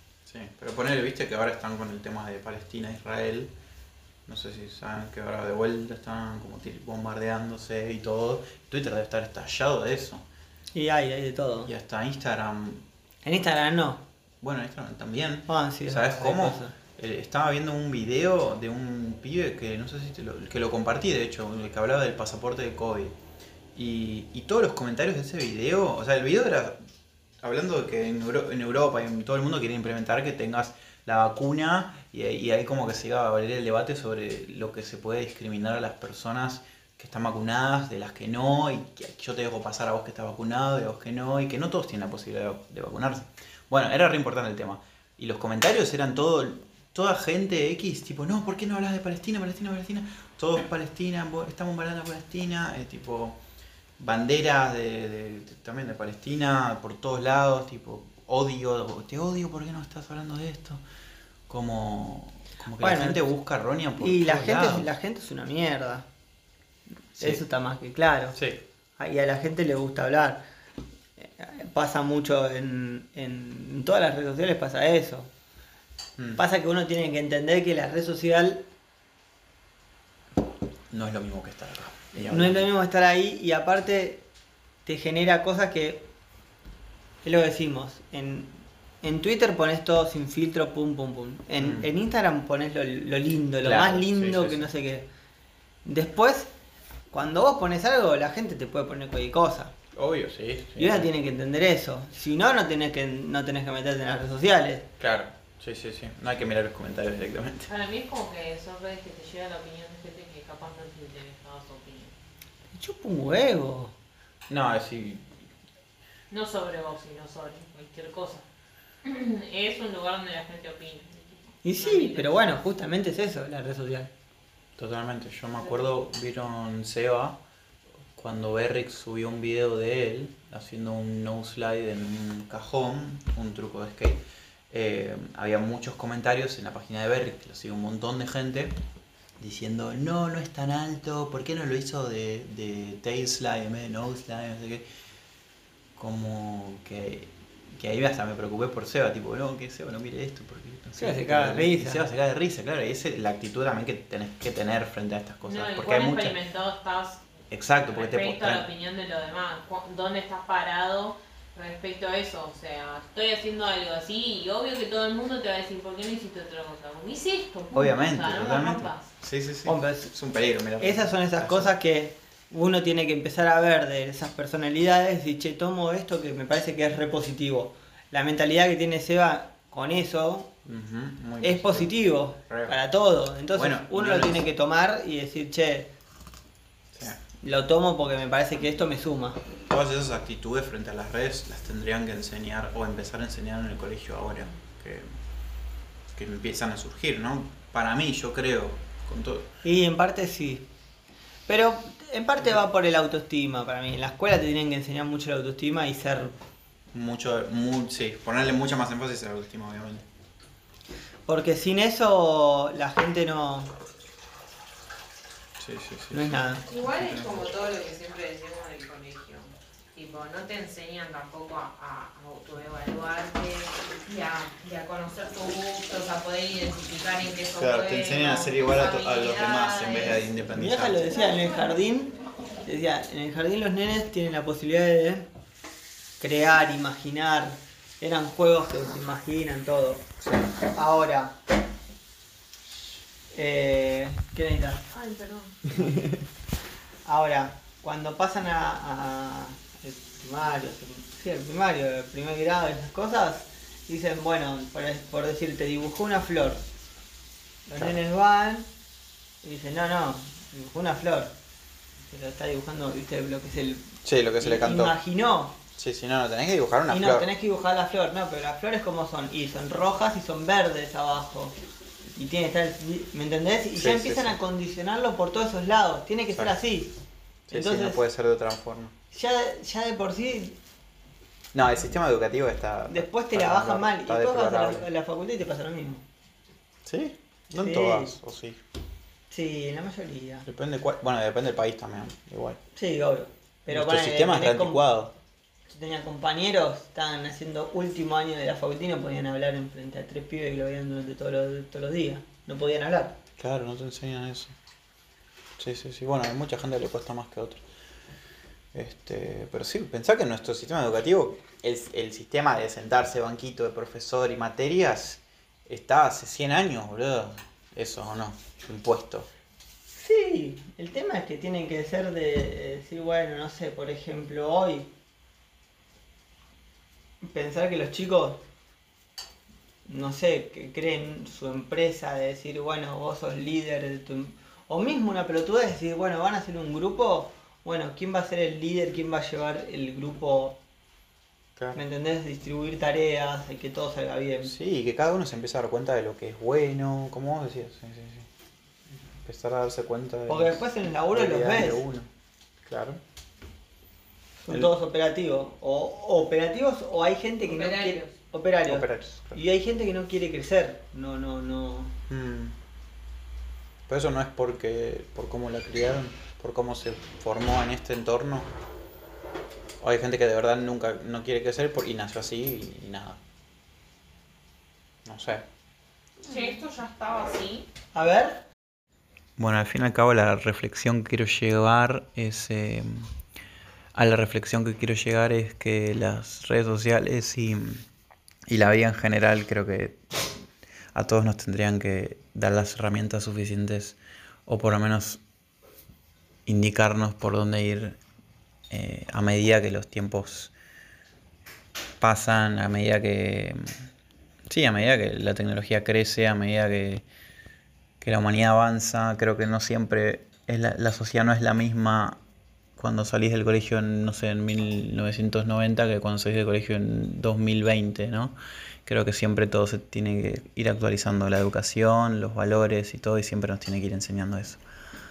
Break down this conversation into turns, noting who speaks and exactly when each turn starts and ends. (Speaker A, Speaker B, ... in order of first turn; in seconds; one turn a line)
Speaker A: 0.3-3.5
Speaker A: 4.3-10.2
Speaker B: 10.7-11.7
Speaker A: 11.7-12.8
Speaker B: 13.2-14.0
Speaker A: 14.4-23.1
Speaker B: 15.5-16.8
Speaker A: 23.8-26.8
Speaker A: 27.4-53.4
Speaker A: 54.0-60.8
Speaker A: 61.5-64.9
Speaker B: 62.8-63.2
Speaker B: 64.0-66.1
Speaker B: 67.2-68.4
Speaker A: 68.3-68.6
Speaker B: 69.0-70.4
Speaker B: 71.2-75.3
Speaker B: 76.4-78.7
Speaker A: 80.9-82.7
Speaker B: 82.2-84.2
Speaker B: 84.8-86.1
Speaker B: 87.2-95.1
Speaker A: 91.6-91.9
Speaker A: 93.6-94.7
Speaker B: 95.8-96.5
Speaker B: 97.1-99.7
Speaker A: 100.0-101.1
Speaker B: 100.8-104.9
Speaker A: 105.0-107.7
Speaker C: 107.7-112.2
Speaker B: 112.7-113.9
Speaker A: 114.5-115.3
Speaker C: 116.3-118.5
Speaker C: 119.0-122.6
Speaker B: 121.6-124.1
Speaker A: 124.8-127.4
Speaker A: 128.2-138.8
Speaker A: 139.4-144.8
Speaker A: 146.0-156.4
Speaker B: 151.0-152.1
Speaker C: 155.4-157.2
Speaker A: 157.5-158.7
Speaker C: 157.9-169.1
Speaker A: 167.7-171.7
Speaker B: 169.7-170.1
Speaker B: 170.8-180.5
Speaker A: 180.7-181.9
Speaker B: 181.4-185.9
Speaker A: 182.5-182.8
Speaker A: 183.5-184.4
Speaker A: 186.9-187.2
Speaker B: 187.4-189.4
Speaker A: 189.7-195.2
Speaker A: 196.2-199.5
Speaker B: 199.6-200.7
Speaker B: 201.5-206.4
Speaker A: 206.9-210.1
Speaker B: 211.3-213.7
Speaker A: 215.6-217.5
Speaker B: 216.1-216.6
Speaker C: 216.6-230.3
Speaker A: 227.6-231.1
Speaker B: 230.5-235.3
Speaker C: 231.1-231.8
Speaker B: 236.2-240.1
Speaker A: 240.2-240.5
Speaker B: 240.7-241.3
Speaker B: 243.3-244.9
Speaker C: 244.9-245.6
Speaker B: 247.1-256.6
Speaker B: 257.7-258.7
Speaker B: 259.4-261.3
Speaker B: 262.1-265.6
Speaker A: 264.0-264.9
Speaker A: 265.8-267.3
Speaker B: 266.9-271.6
Speaker B: 272.1-276.9
Speaker A: 273.8-274.4
Speaker A: 277.5-278.9
Speaker B: 277.5-278.0
Speaker B: 279.1-280.6
Speaker A: 281.5-284.9
Speaker B: 282.9-286.0
Speaker A: 286.9-288.6
Speaker B: 287.6-288.1
Speaker B: 289.3-290.5
Speaker A: 290.5-292.6
Speaker B: 292.8-294.8
Speaker A: 293.7-295.1
Speaker B: 295.7-303.2
Speaker A: 303.4-304.6
Speaker A: 305.6-307.6
Speaker A: 308.7-319.3
Speaker B: 319.9-324.9
Speaker B: 327.2-328.4
Speaker B: 329.9-340.6
Speaker B: 341.8-344.5
Speaker A: 344.4-348.3
Speaker A: 349.2-350.6
Speaker B: 350.3-351.8
Speaker A: 351.1-352.1
Speaker A: 352.6-353.0
Speaker B: 354.4-361.9
Speaker C: 357.4-358.1
Speaker A: 358.7-359.4
Speaker A: 362.1-362.6
Speaker A: 363.9-368.5
Speaker A: 369.8-373.2
Speaker A: 375.1-375.4
Speaker C: 376.2-377.7
Speaker B: 377.9-378.4
Speaker A: 379.4-383.1
Speaker A: 383.9-387.8
Speaker A: 388.5-390.0
Speaker A: 390.9-395.2
Speaker A: 396.5-398.0
Speaker A: 398.7-400.5
Speaker A: 402.0-403.7
Speaker A: 404.5-407.1
Speaker A: 408.0-412.2
Speaker A: 412.8-418.4
Speaker A: 418.9-424.6